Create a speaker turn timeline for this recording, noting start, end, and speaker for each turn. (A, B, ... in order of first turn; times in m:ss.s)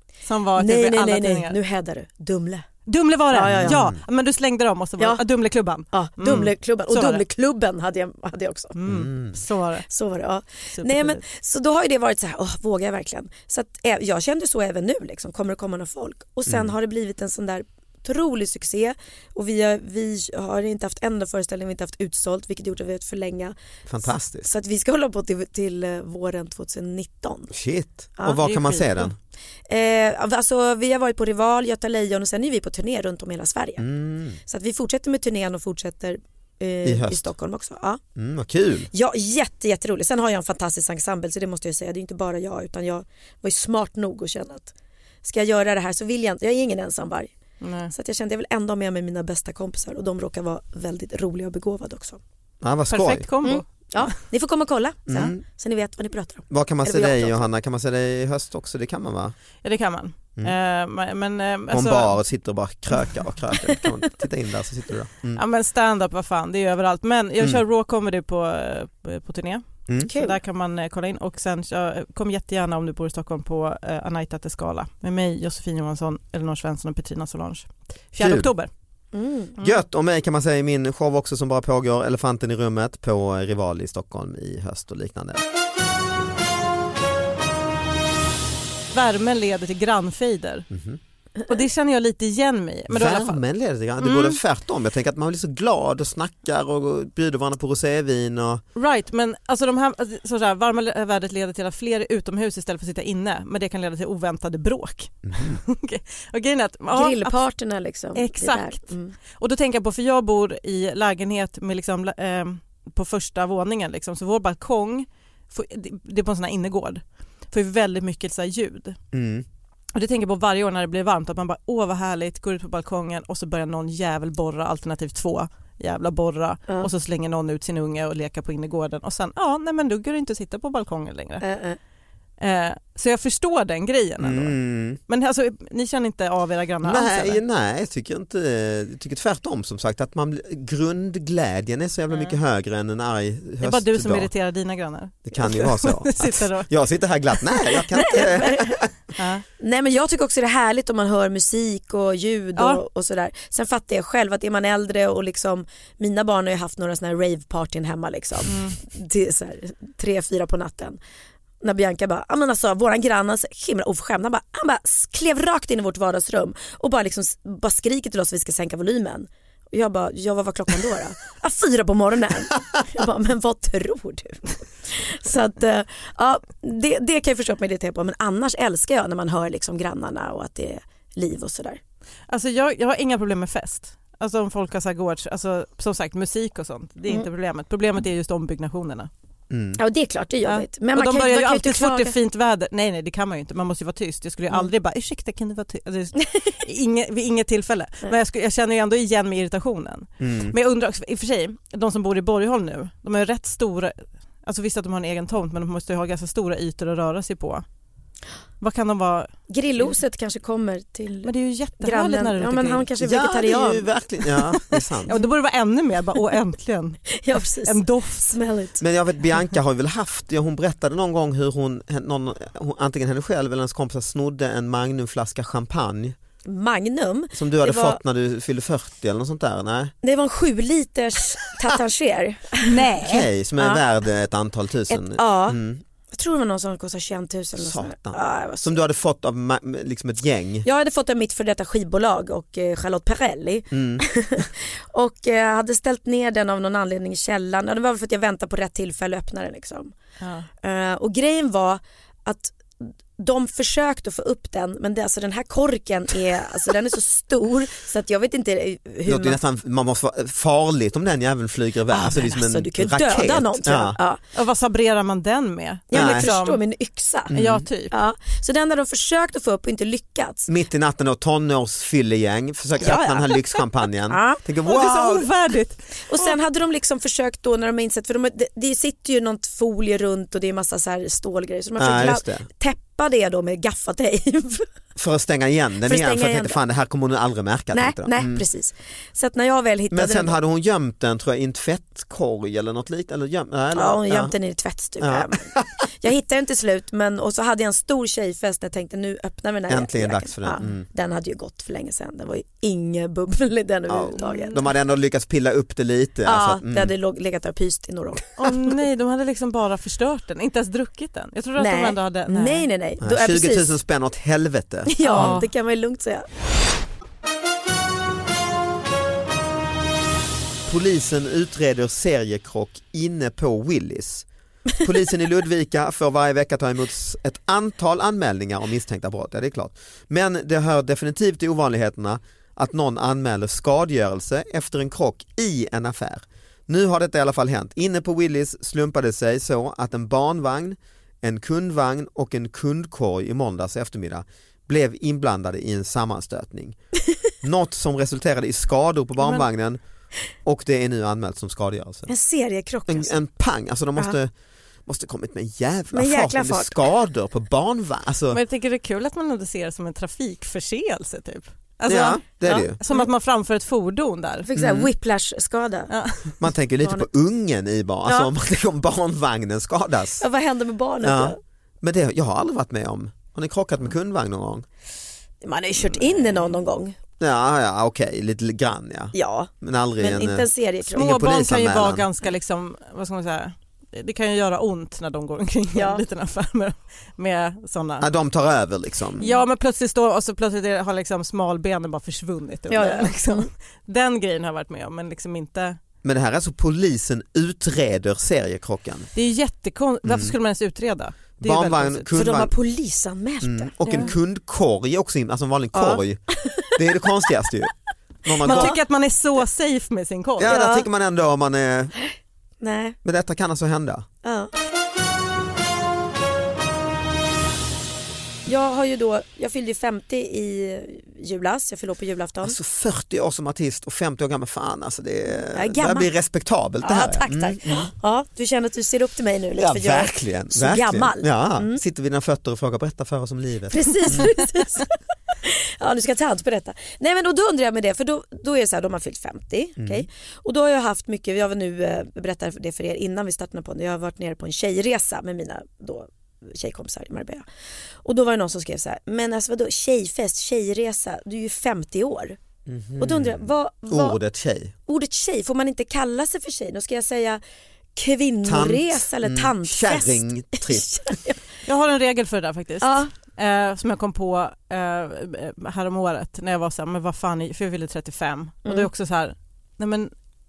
0:00.2-0:01.6 A
0:00.6-0:02.7 B
0:02.9-0:07.2 A
0:03.3-0:03.8 B
0:03.5-0:04.0 C
0:05.9-0:08.8 B
0:08.8-0:09.9 A
0:08.8-0:09.4 C
0:09.9-0:27.5 B
0:10.7-0:11.2 A
0:16.5-0:16.7 C
0:23.9-0:24.5 C
0:27.5-0:29.2 C
0:28.4-0:29.1 A
0:29.7-0:33.8 B
0:33.8-0:34.4 C
0:34.4-0:38.0 B
0:36.8-0:37.3 C
0:38.2-0:38.9 C
0:38.9-0:44.7 B
0:45.2-0:47.3 B
0:47.6-0:47.9 A
0:47.9-0:52.2 B
0:52.6-0:53.3 C
0:52.9-0:53.6 A
0:53.4-0:57.4 B
0:55.1-0:55.4 C
0:56.5-0:59.4 C
0:59.6-1:02.2 A
1:01.7-1:05.4 C
1:05.4-1:18.7 A
1:10.1-1:10.4 B
1:18.2-1:18.5 C
1:19.1-1:19.6 B
1:19.6-1:25.4 C
1:28.9-1:30.7 A
1:30.7-1:31.0 C
1:31.5-1:33.4 A
1:32.9-1:38.6 C
1:34.0-1:34.4 A
1:38.8-1:47.4 A
1:45.3-1:45.6 C
1:46.9-1:49.1 B
1:48.2-1:59.0 A
1:59.1-1:59.5 C
2:00.0-2:11.4 A
2:11.4-2:11.8 B
2:12.4-2:17.4 A
2:14.2-2:15.0 C
2:16.8-2:24.3 C
2:22.1-2:22.4 A
2:23.6-2:26.7 A
2:25.2-2:28.9 C
2:27.9-2:28.7 B
2:29.2-2:29.4 A
2:29.6-2:41.0 B
2:32.6-2:32.8 A
2:38.5-2:38.8 A
2:41.6-3:01.8 B
3:02.3-3:09.1 A
3:09.5-3:09.8 C
3:09.8-3:12.1 B
3:10.4-3:27.6 A
3:20.2-3:20.6 C
3:28.6-3:29.9 A
3:29.5-3:33.9 B
3:31.2-3:32.9 A
3:33.0-3:35.1 C
3:34.7-3:38.4 A
3:37.1-3:38.8 B
3:38.8-3:46.2 C
3:46.4-3:48.0 B
3:47.3-3:49.9 C
3:50.0-3:52.8 B
3:52.6-3:53.3 A
3:53.0-3:55.8 C
3:54.9-3:55.6 B
3:56.1-3:58.8 B
3:57.6-4:00.7 C
4:00.6-4:10.0 B
4:03.7-4:04.1 C
4:10.2-4:10.5 A
4:10.6-4:19.4 B
4:19.1-4:24.0 C
4:21.9-4:24.2 B
4:24.4-4:26.6 A
4:25.9-4:27.3 B
4:25.9-4:26.3 C
4:27.3-4:27.7 C
4:27.3-4:27.9 A
4:27.9-4:30.5 B
4:30.5-4:35.3 C
4:32.8-4:33.3 B
4:34.1-4:34.4 B
4:34.6-4:36.4 A
4:36.1-4:44.7 B
4:41.8-4:42.5 C
4:45.0-4:48.4 C
4:45.9-4:46.6 B
4:47.7-4:50.4 B
4:49.9-4:54.3 C
4:53.7-5:04.6 B
4:55.0-4:55.8 C
4:59.7-5:00.9 C
5:03.9-5:06.9 C
5:06.2-5:08.3 B
5:08.4-5:12.7 A
5:11.6-5:13.8 B
5:13.0-5:15.4 C
5:14.9-5:16.3 B
5:15.0-5:15.5 A
5:20.7-5:24.3 C
5:24.8-5:46.8 C
5:47.4-5:49.8 C
5:50.4-5:52.1 C
5:52.1-5:53.2 B
5:52.9-5:54.3 C
5:54.9-5:58.4 C
5:55.9-5:56.8 B
5:58.3-6:04.5 A
6:01.9-6:02.8 C
6:02.5-6:03.1 B
6:04.5-6:05.9 B
6:04.6-6:04.9 C
6:05.9-6:06.2 A
6:06.4-6:10.2 C
6:10.2-6:11.4 B
6:11.0-6:14.7 C
6:15.4-6:17.0 B
6:17.2-6:22.1 C
6:19.1-6:21.1 B
6:21.0-6:28.1 A
6:25.8-6:26.0 B
6:28.0-6:29.3 C
6:29.2-6:35.8 A
6:32.7-6:33.5 B
6:36.0-6:39.1 C
6:39.2-6:42.1 A
6:40.0-6:40.4 C
6:41.4-6:42.5 C
6:42.1-6:44.1 B
6:43.4-6:48.8 C
6:43.8-6:44.1 A
6:45.7-6:46.8 B
6:48.4-6:48.8 B
6:48.4-6:50.5 A
6:50.4-6:51.9 C
6:50.5-6:50.9 B
6:52.6-6:53.0 B
6:53.0-6:54.1 C
6:54.2-6:54.5 B
6:58.5-7:02.6 B
7:02.4-7:07.9 C
7:05.5-7:06.1 B
7:06.8-7:11.8 B
7:09.6-7:14.3 C
7:13.7-7:14.9 B
7:15.4-7:27.4 B
7:19.8-7:20.1 C
7:28.0-7:32.4 B
7:32.7-7:34.7 C
7:33.0-7:34.2 B
7:34.9-7:37.4 B
7:38.0-7:41.4 B
7:38.4-7:41.2 C
7:41.7-7:50.1 A
7:42.8-7:43.1 B